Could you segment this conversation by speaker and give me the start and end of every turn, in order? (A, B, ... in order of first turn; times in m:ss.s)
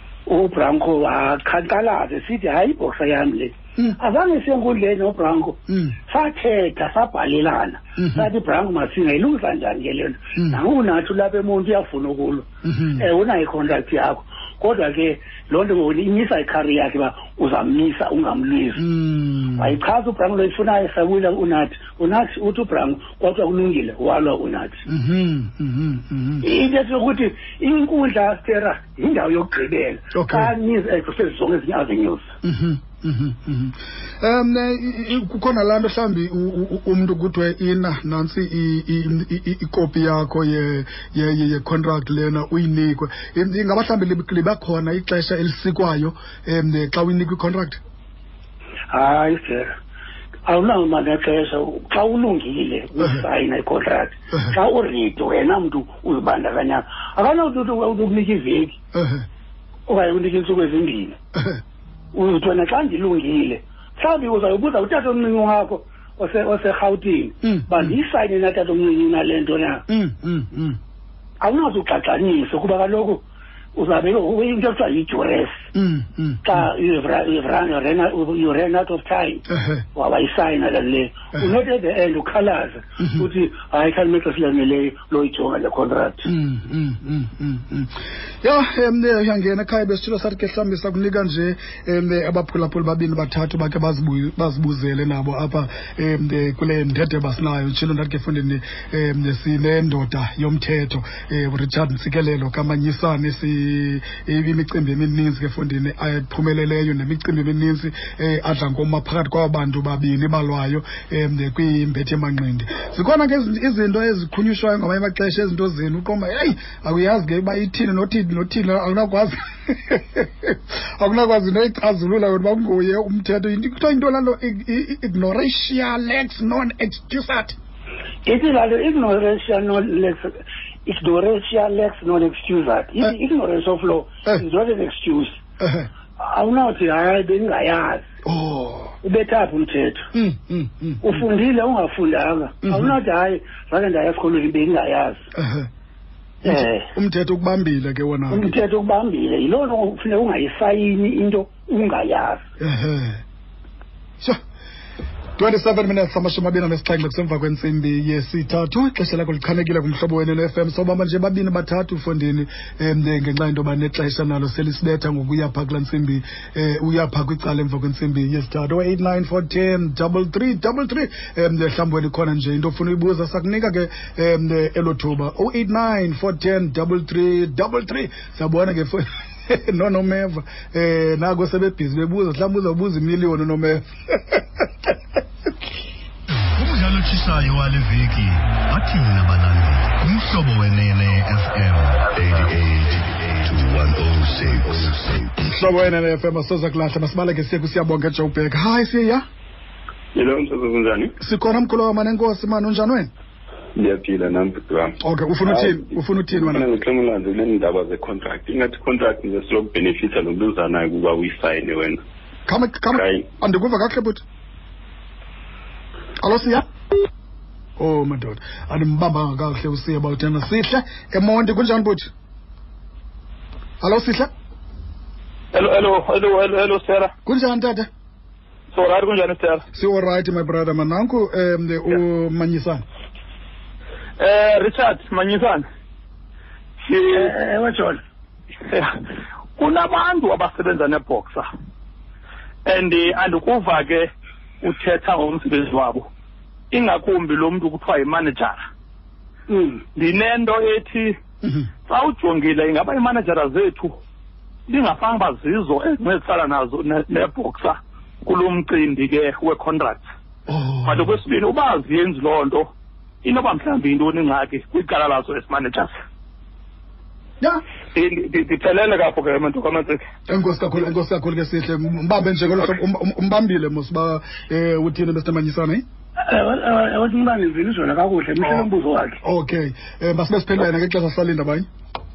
0:00.3-0:18.8 A
0:05.7-0:06.0 B
0:08.0-0:08.3 B
0:12.6-0:13.0 B
0:18.8-0:19.8 B
0:19.5-0:24.8 A
0:24.8-0:26.5 B
0:26.4-0:32.3 A
0:30.1-0:30.5 B
0:32.4-0:47.8 B
0:48.9-0:49.7 A
0:50.5-0:58.8 A
0:58.9-0:59.2 B
0:59.9-1:01.2 A
1:02.1-1:09.8 A
1:07.4-1:08.0 B
1:09.9-1:10.8 B
1:11.4-1:13.2 A
1:13.8-1:15.6 A
1:15.7-1:16.7 B
1:16.4-1:26.3 A
1:19.5-1:19.8 B
1:23.0-1:23.3 B
1:26.2-2:07.6 B
2:08.2-2:15.4 A
2:15.6-2:15.9 B
2:16.2-2:18.0 A
2:18.2-2:18.9 B
2:19.0-2:20.1 A
2:20.1-2:21.2 B
2:21.0-2:25.2 A
2:22.6-2:22.9 B
2:25.3-2:25.7 B
2:26.4-2:28.5 B
2:26.4-2:26.9 A
2:28.3-2:32.4 A
2:32.6-2:33.2 B
2:35.4-3:04.9 B
3:06.4-3:15.5 C
3:15.4-3:19.2 B
3:20.1-3:21.1 D
3:21.2-3:23.1 B
3:23.7-3:25.8 D
3:25.0-3:26.7 B
3:26.3-3:32.0 D
3:32.5-3:34.2 B
3:36.2-3:36.6 B
3:37.8-3:42.1 B
3:43.8-3:44.3 B
3:45.5-3:47.1 E
3:47.2-3:47.9 B
3:48.7-3:49.6 E
3:49.7-3:52.8 B
3:54.2-3:55.6 E
3:56.8-3:57.3 E
3:57.1-3:58.0 A
3:58.6-3:58.9 E
3:59.6-4:01.5 E
4:02.6-4:04.1 E
4:04.6-4:06.1 E
4:06.7-4:08.6 E
4:09.5-4:09.8 A
4:09.9-4:11.2 E
4:11.8-4:14.0 E
4:14.7-4:20.0 E
4:20.5-4:21.1 B
4:20.8-4:22.7 E
4:23.2-4:25.9 E
4:27.9-4:30.0 E
4:30.3-4:35.8 B
4:36.2-4:39.2 A
4:39.2-4:41.6 B